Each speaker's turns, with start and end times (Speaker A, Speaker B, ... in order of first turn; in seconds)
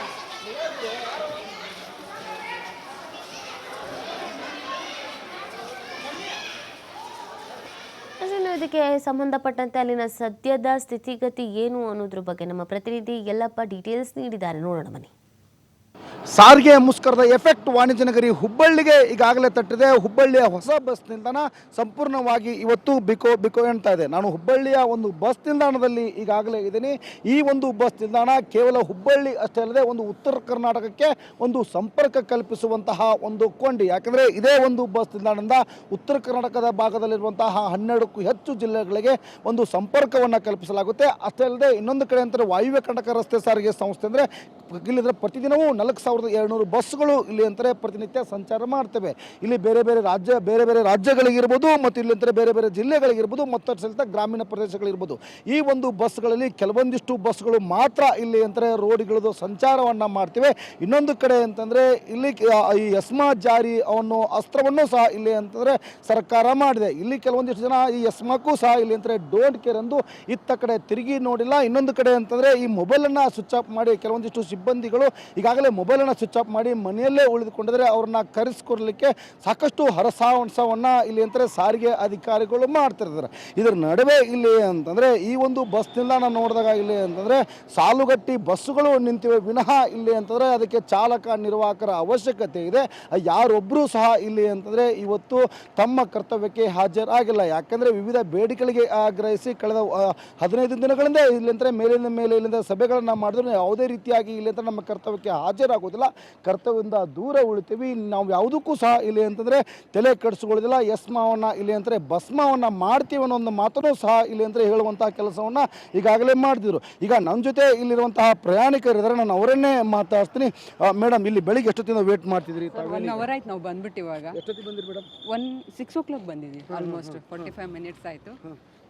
Speaker A: 8.2-15.1
Speaker B: 16.4-123.3, 124.3-125.1, 126.7-127.5
Speaker C: 122.7-124.4, 125.3-128.4